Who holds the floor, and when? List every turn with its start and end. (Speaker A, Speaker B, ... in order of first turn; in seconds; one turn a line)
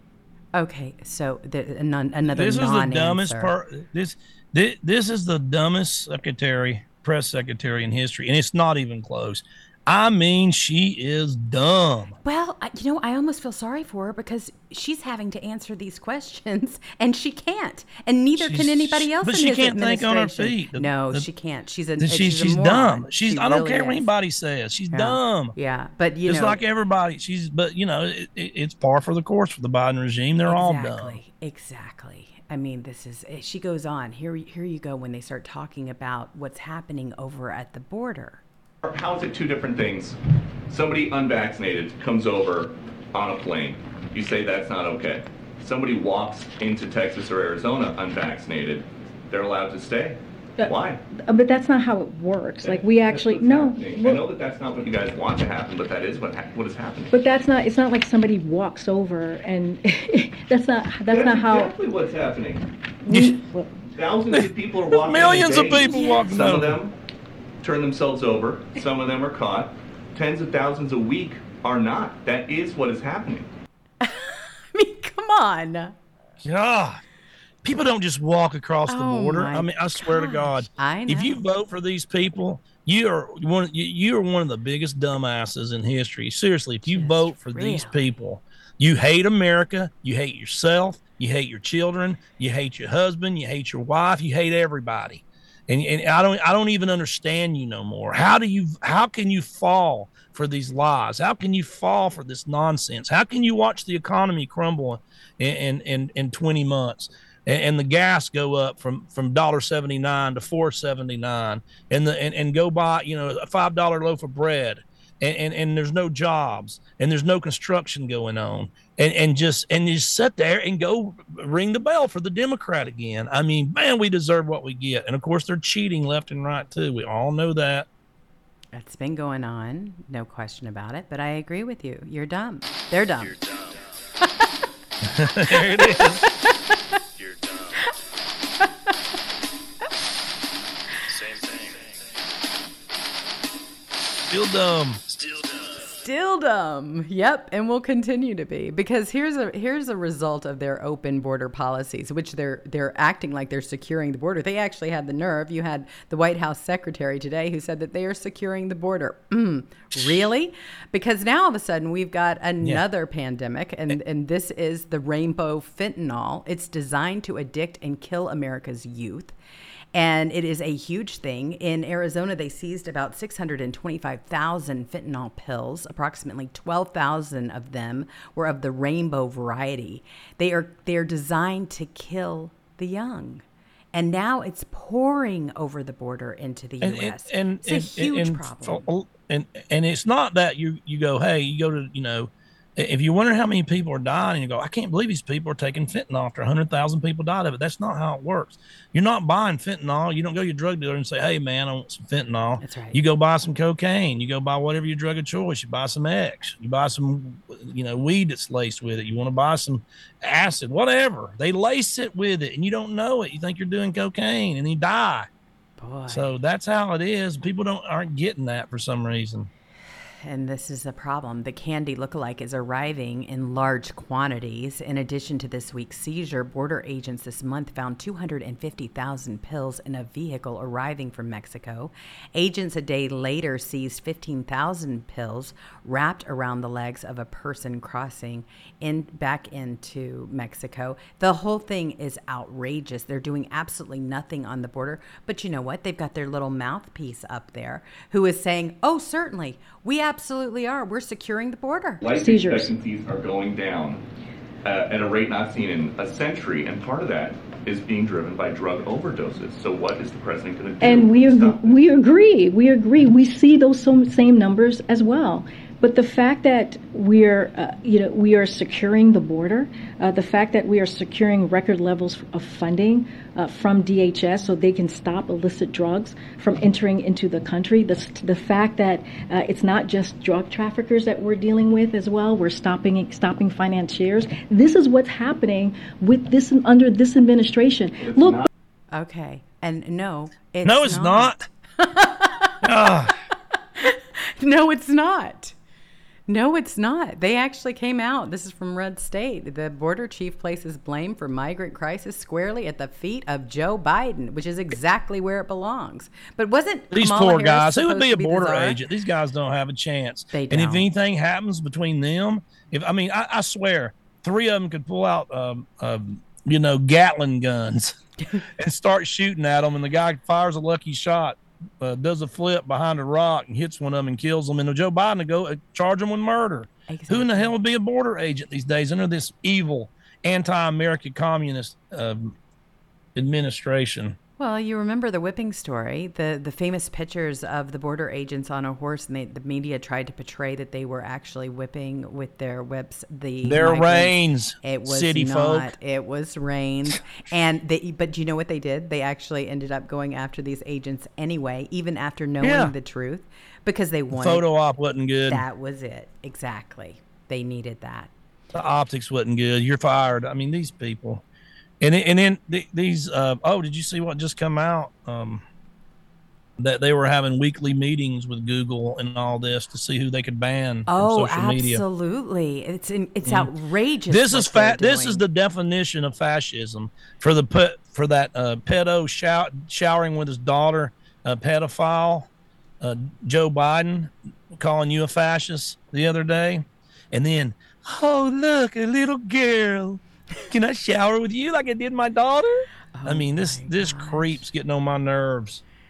Speaker A: 0.5-3.5
Speaker B: 2.2-12.2
Speaker A: 12.2-24.1
Speaker B: 18.4-21.3
Speaker B: 22.0-25.5
Speaker A: 24.9-26.6
Speaker B: 26.3-31.2
Speaker A: 30.4-38.4
Speaker C: 38.8-40.2
Speaker C: 40.7-51.0
Speaker D: 50.6-54.2
Speaker C: 52.6-57.1
Speaker D: 57.1-61.7
Speaker C: 61.1-62.6
Speaker D: 63.0-63.8
Speaker B: 63.1-63.4
Speaker C: 63.9-66.9
Speaker B: 64.3-66.8
Speaker A: 65.9-66.3
Speaker C: 67.6-73.5
Speaker A: 74.0-75.9
Speaker B: 76.4-77.0
Speaker B: 77.6-127.9
Speaker A: 78.9-81.4
Speaker A: 86.8-88.1
Speaker A: 128.7-133.4
Speaker B: 135.0-136.2
Speaker A: 135.5-136.8
Speaker B: 144.2-145.7
Speaker A: 146.0-169.3
Speaker B: 159.9-160.2
Speaker A: 169.9-188.8
Speaker B: 186.8-215.3
Speaker A: 202.6-203.0
Speaker A: 215.8-216.3
Speaker B: 216.1-219.5
Speaker A: 220.2-252.0
Speaker C: 252.0-254.0
Speaker D: 252.1-252.7
Speaker C: 254.6-261.8
Speaker D: 260.8-288.5
Speaker C: 288.0-288.5
Speaker A: 288.9-292.6
Speaker B: 290.6-291.4
Speaker B: 292.6-293.1
Speaker A: 293.8-295.5
Speaker A: 296.3-308.8
Speaker B: 306.9-318.0
Speaker A: 310.3-310.9
Speaker A: 318.2-318.4
Speaker B: 318.6-332.4
Speaker A: 326.9-327.5
Speaker B: 333.1-334.2
Speaker A: 334.4-354.4
Speaker B: 343.4-345.7
Speaker B: 352.4-352.7
Speaker B: 354.1-355.4
Speaker A: 355.3-358.1
Speaker B: 358.5-361.2
Speaker B: 361.8-365.4
Speaker B: 366.6-371.8
Speaker A: 370.9-375.2
Speaker B: 373.2-373.5
Speaker B: 374.1-382.3
Speaker B: 382.8-395.6
Speaker A: 392.9-394.4